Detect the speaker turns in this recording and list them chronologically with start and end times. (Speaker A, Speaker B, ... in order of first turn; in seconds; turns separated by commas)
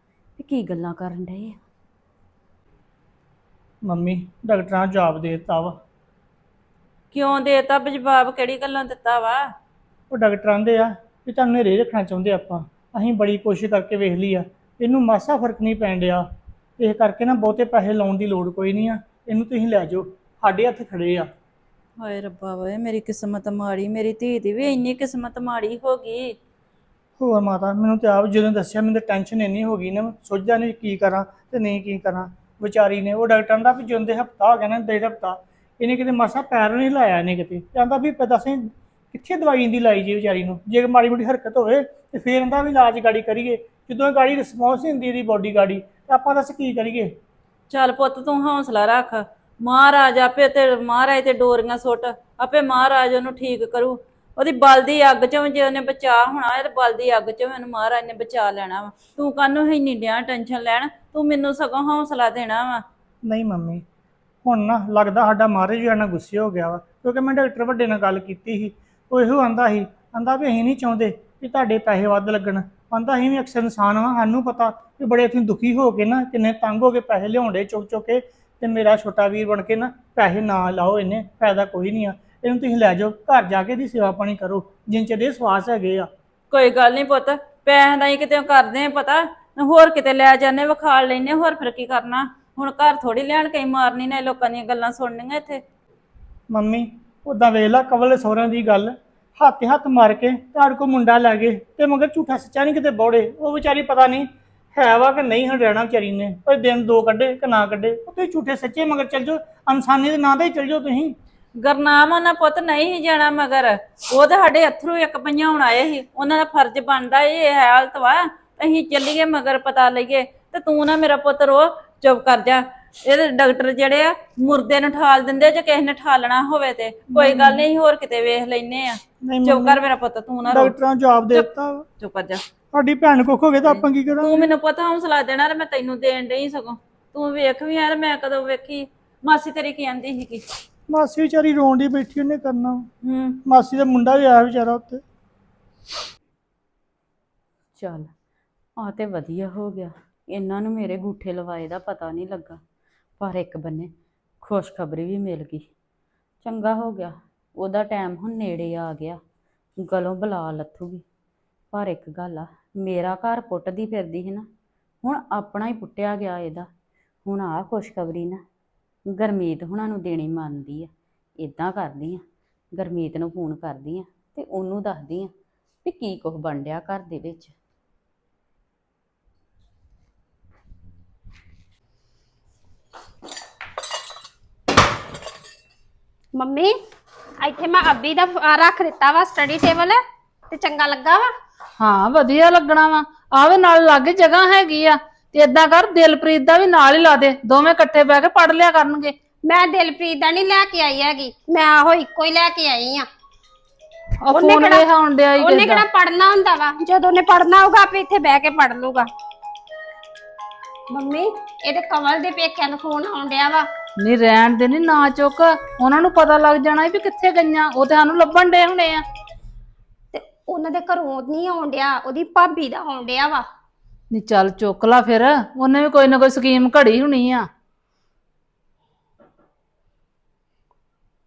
Speaker A: 0.4-1.6, Speaker B: 3.9-5.8, Speaker C: 7.1-9.4, Speaker B: 10.1-16.2, Speaker B: 16.8-21.3, Speaker C: 22.0-26.4, Speaker B: 27.2-47.1, Speaker C: 47.7-62.8, Speaker B: 63.2-63.8, Speaker B: 64.4-86.1, Speaker C: 86.5-95.6, Speaker B: 96.5-111.1, Speaker C: 111.6-130.8, Speaker B: 127.1-127.7, Speaker B: 129.2-129.8, Speaker B: 130.5-131.8, Speaker C: 132.0-132.4, Speaker B: 132.7-134.5, Speaker C: 133.6-140.4, Speaker B: 140.9-142.9, Speaker C: 143.0-143.4, Speaker B: 143.5-145.0, Speaker A: 147.8-148.1, Speaker A: 148.8-152.6, Speaker A: 153.2-155.6, Speaker A: 156.4-159.2, Speaker A: 159.8-161.0, Speaker A: 161.7-164.5, Speaker A: 165.0-166.7, Speaker A: 167.2-168.4, Speaker A: 169.1-172.2, Speaker A: 172.8-175.3, Speaker A: 175.8-177.5, Speaker D: 186.3-186.7, Speaker D: 187.4-191.3, Speaker E: 191.8-199.1, Speaker D: 199.5-203.1, Speaker E: 204.2-205.8, Speaker D: 204.3-204.8, Speaker D: 205.4-209.1, Speaker D: 210.9-213.7, Speaker E: 214.0-219.0, Speaker D: 220.1-223.4, Speaker E: 224.1-227.4